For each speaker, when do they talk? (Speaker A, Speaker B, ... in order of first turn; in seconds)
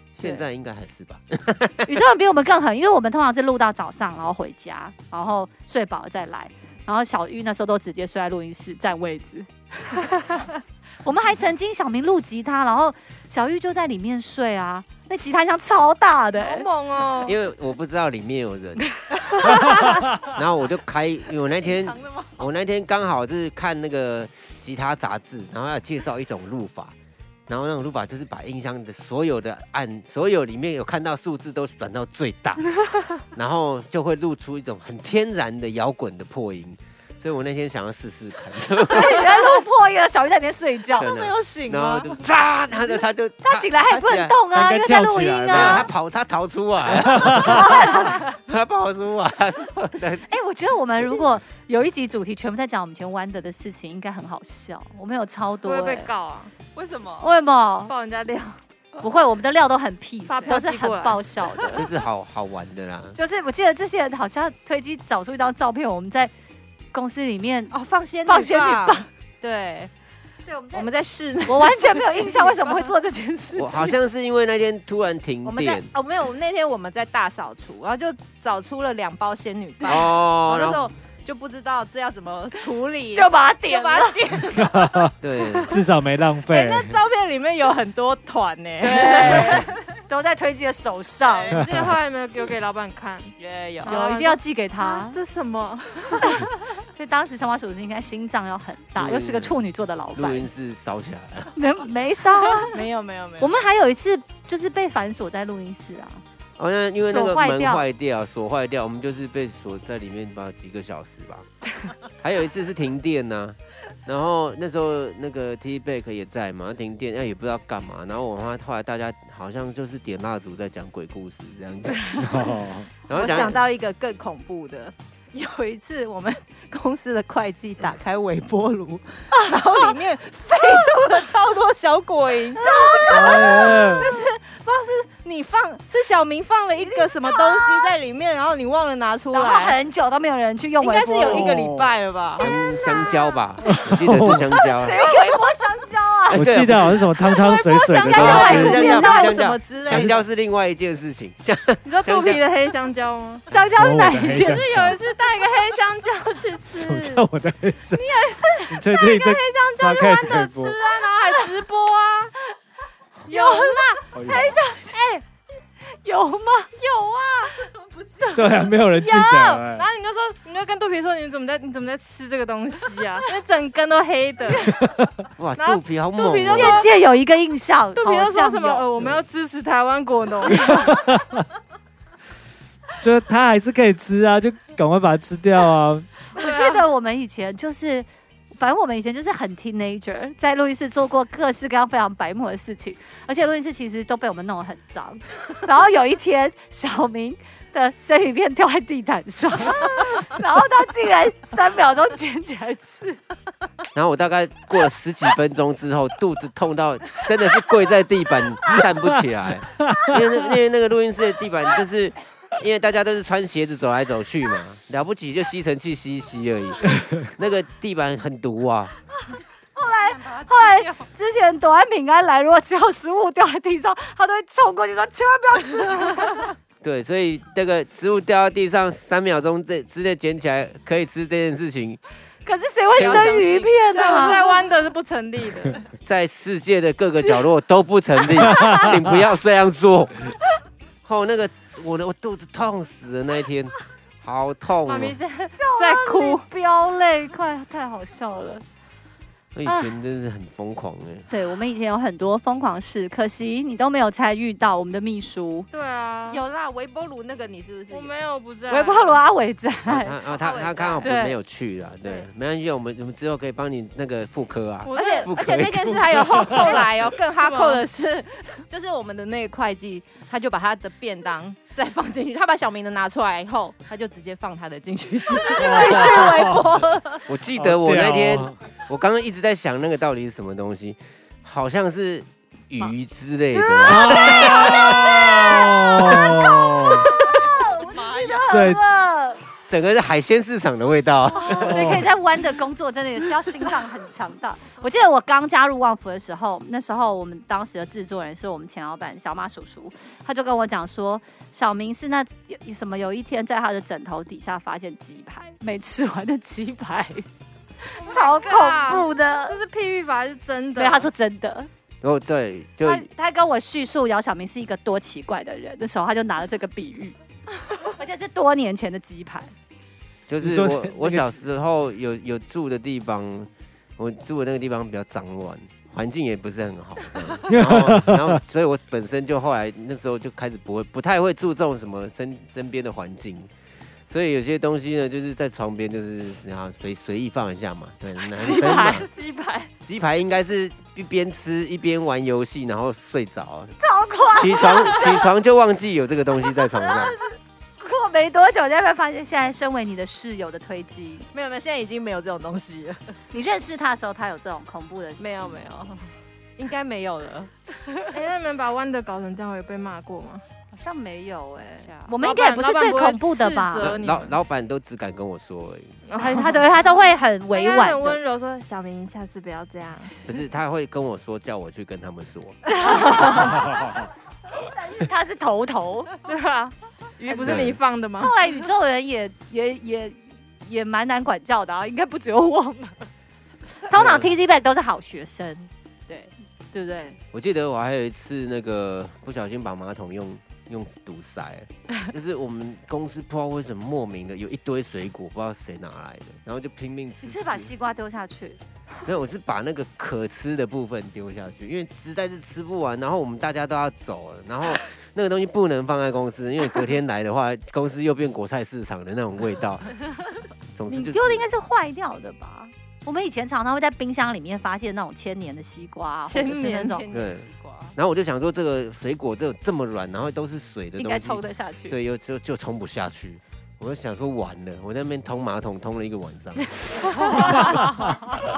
Speaker A: 0.1-1.9, 17.2-18.9, 20.2-26.9, 27.5-32.7, 33.3-39.3, 41.0-44.4, 45.5-50.3, 61.7-63.2, 73.5-75.9, 79.8-80.8, 85.2-85.8, 99.0-99.6, 100.1-101.5, 106.6-111.5, 112.2-122.3, 123.1-123.6, 142.4-145.0, 146.3-147.0, 148.1-152.4, 175.4-176.8, 203.9-218.9, 226.8-232.0, 232.9-233.3, 236.0-240.3, 241.0-245.2, 249.5-251.3, 259.8-266.2, 277.3-284.9, 289.7-292.0, 312.0-313.1, 320.3-333.5, 334.1-339.1, 339.8-343.7, 344.3-347.1, 363.8-366.0, 370.2-372.6, 377.4-377.8, 383.9-384.2, 387.3-397.7, 399.1-409.9, 410.7-411.5, 417.1-427.0
Speaker B: 1.9-16.7, 19.4-19.8, 38.8-41.1, 43.4-45.9, 47.4-48.3, 50.3-56.1, 57.2-57.9, 59.0-61.8, 63.1-66.3, 66.9-69.1, 70.5-70.9, 71.5-74.0, 83.1-84.2, 88.8-91.6, 93.8-95.2, 96.2-100.5, 101.5-102.8, 103.4-106.2, 106.9-107.8, 132.6-133.7, 136.8-137.9, 139.3-141.5, 142.4-143.1, 144.6-146.5, 147.2-149.4, 153.5-154.7, 163.3-165.2, 166.0-166.7, 176.5-178.8, 186.3-203.2, 219.8-226.5, 232.4-234.4, 245.5-248.6, 249.6-249.9, 251.3-255.7, 258.7-260.2, 261.0-261.4, 275.6-276.3, 283.5-289.4, 291.3-307.3, 307.9-309.6, 310.8-311.7, 312.8-317.1, 318.0-319.5, 338.3-339.6, 343.8-345.3, 346.6-351.2, 353.3-355.5, 360.7-363.9, 366.2-368.2, 372.8-373.9, 374.5-376.1, 377.3-377.6, 378.2-383.0, 383.9-385.7, 386.7-387.2, 397.2-398.6, 410.9-417.0, 421.0-422.0, 426.8-428.1
Speaker C: 16.4-17.4, 55.6-56.5, 57.9-58.6, 60.3-61.6, 91.4-96.5, 151.8-153.5, 154.3-157.2, 160.7-162.4, 163.3-163.9, 169.0-174.7, 175.6-176.9, 177.9-180.9, 186.3-186.8, 233.9-235.8, 244.9-246.4, 255.7-256.4, 257.9-259.2, 264.8-265.3, 266.4-267.8, 308.0-311.1, 338.4-338.9, 358.1-360.4, 362.2-364.4, 366.1-370.1, 373.1-373.3, 376.2-378.4, 416.3-417.0
Speaker D: 21.6-22.4, 41.0-42.2, 56.7-57.3, 67.7-69.9, 70.7-72.9, 75.4-84.9, 86.5-89.7, 93.4-93.9, 102.7-103.5, 123.1-139.8, 140.8-143.0, 145.0-145.4, 148.0-150.2, 158.0-160.9, 167.4-168.8, 219.8-221.1, 226.0-226.5, 232.9-234.4, 256.3-258.1, 260.2-261.1, 264.9-277.2, 287.2-288.6, 351.3-353.1, 355.2-357.5, 361.5-362.1, 416.6-417.9, 427.4-427.7
Speaker E: 44.5-45.9, 46.9-47.7, 84.5-85.1, 85.6-87.0, 91.6-91.9, 122.2-122.9, 133.1-134.1, 141.2-141.9, 143.7-144.5, 146.3-148.8, 149.9-150.2, 153.5-155.0, 156.7-158.1, 158.7-160.8, 164.1-164.6, 168.3-169.9, 174.7-175.1, 180.7-181.4, 183.0-186.1, 275.6-276.8, 277.6-278.6, 283.9-287.1, 288.5-288.8, 291.6-292.1, 320.4-321.4, 327.5-328.4